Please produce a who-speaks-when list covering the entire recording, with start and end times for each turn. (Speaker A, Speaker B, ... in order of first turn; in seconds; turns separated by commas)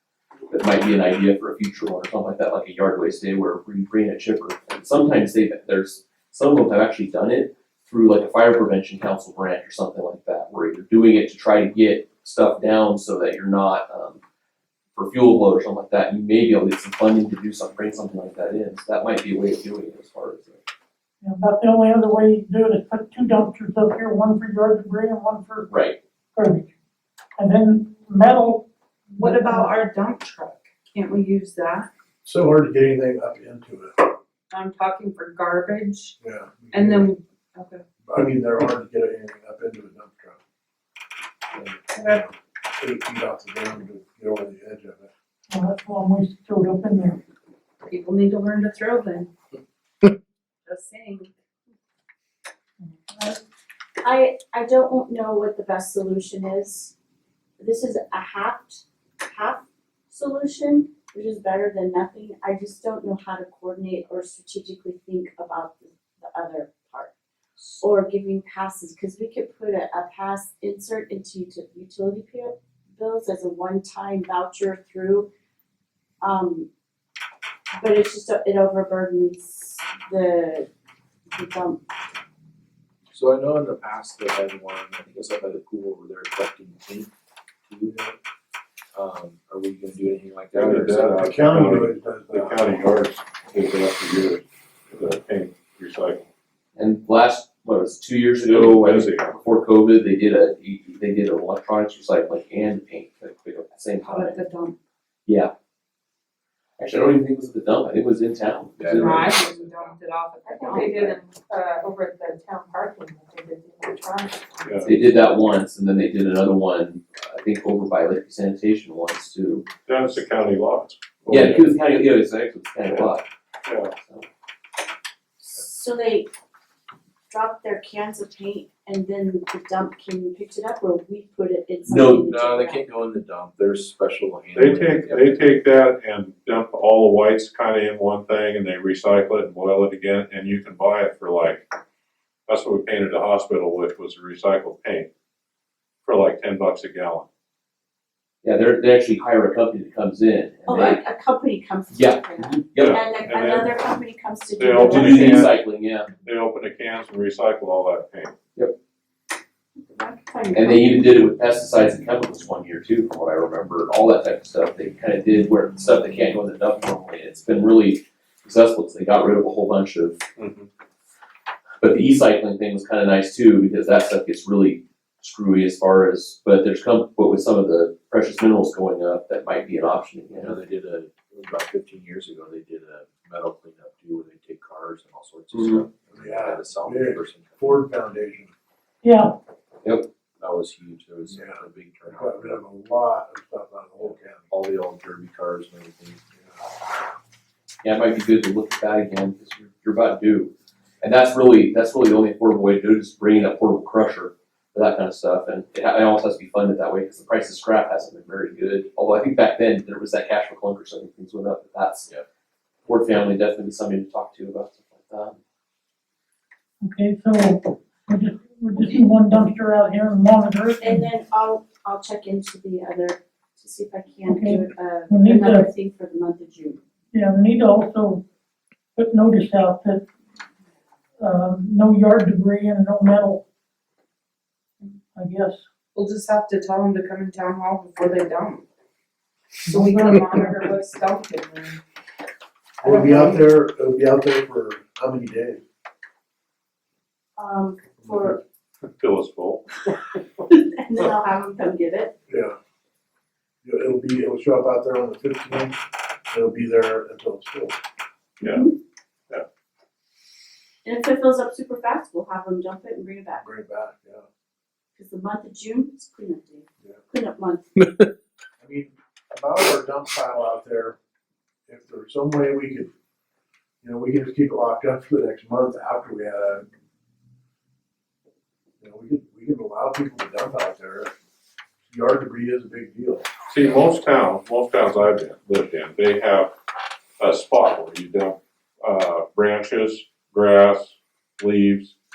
Speaker A: 0.5-14.2, Speaker A: 14.9-20.6, Speaker B: 21.2-25.8, Speaker A: 25.7-26.0, Speaker B: 26.3-26.7, Speaker B: 27.4-29.7, Speaker C: 29.2-31.9, Speaker D: 32.2-34.1, Speaker C: 34.5-36.1, Speaker D: 36.2-37.1, Speaker C: 36.7-37.8, Speaker D: 38.0-40.4, Speaker D: 41.5-45.1, Speaker C: 41.9-42.2, Speaker B: 45.5-47.2, Speaker C: 47.9-49.3, Speaker C: 50.6-51.3, Speaker E: 54.0-56.9, Speaker E: 57.6-67.1, Speaker E: 67.8-75.3, Speaker E: 76.2-76.7, Speaker E: 77.8-80.7, Speaker E: 81.3-81.8, Speaker F: 83.1-87.1, Speaker F: 87.7-88.1, Speaker D: 87.9-88.1, Speaker F: 88.9-91.3, Speaker G: 90.5-96.2, Speaker D: 91.2-92.6, Speaker A: 96.8-104.4, Speaker G: 98.4-99.3, Speaker C: 104.0-104.8, Speaker A: 105.2-105.5, Speaker A: 106.8-109.7, Speaker F: 108.8-109.6, Speaker C: 108.9-110.9, Speaker H: 110.0-114.9, Speaker G: 114.7-114.9, Speaker A: 114.8-119.6, Speaker G: 119.8-121.7, Speaker A: 121.3-123.2, Speaker G: 123.7-123.9, Speaker E: 125.4-126.3, Speaker E: 127.3-132.8, Speaker F: 131.8-135.6, Speaker G: 134.5-141.6, Speaker G: 142.5-145.1, Speaker G: 146.0-147.3, Speaker A: 148.4-151.0, Speaker E: 150.7-155.4, Speaker A: 151.9-152.9, Speaker G: 152.7-153.7, Speaker G: 154.6-155.6, Speaker A: 154.8-156.1, Speaker G: 156.1-158.3, Speaker E: 159.8-160.9, Speaker A: 160.5-170.2, Speaker G: 170.4-170.7, Speaker A: 171.8-180.6, Speaker F: 180.3-187.8, Speaker A: 185.6-185.8, Speaker D: 186.1-188.5, Speaker B: 189.0-189.3, Speaker F: 190.4-192.6, Speaker D: 191.3-191.6, Speaker D: 192.1-194.5, Speaker F: 194.0-196.2, Speaker A: 197.8-212.1, Speaker A: 212.9-215.4, Speaker B: 216.8-221.1, Speaker E: 220.8-226.8, Speaker B: 224.2-225.7, Speaker B: 227.1-228.2, Speaker B: 229.0-230.1, Speaker B: 231.2-233.4, Speaker B: 235.2-235.6, Speaker C: 235.9-238.6, Speaker C: 239.6-241.8, Speaker B: 239.7-240.6, Speaker D: 242.8-245.6, Speaker C: 242.8-243.4, Speaker E: 247.4-248.4, Speaker D: 248.0-248.3, Speaker G: 248.8-249.8, Speaker E: 250.4-252.1, Speaker D: 252.3-252.6, Speaker D: 253.6-255.8, Speaker D: 256.3-257.8, Speaker G: 258.4-258.7, Speaker E: 258.4-258.7, Speaker E: 260.8-263.4, Speaker D: 263.4-264.2, Speaker E: 264.9-267.7, Speaker D: 268.6-270.9, Speaker D: 271.7-272.9, Speaker D: 273.8-276.7, Speaker D: 278.8-281.1, Speaker D: 281.9-283.2, Speaker G: 283.5-286.5, Speaker G: 287.2-291.9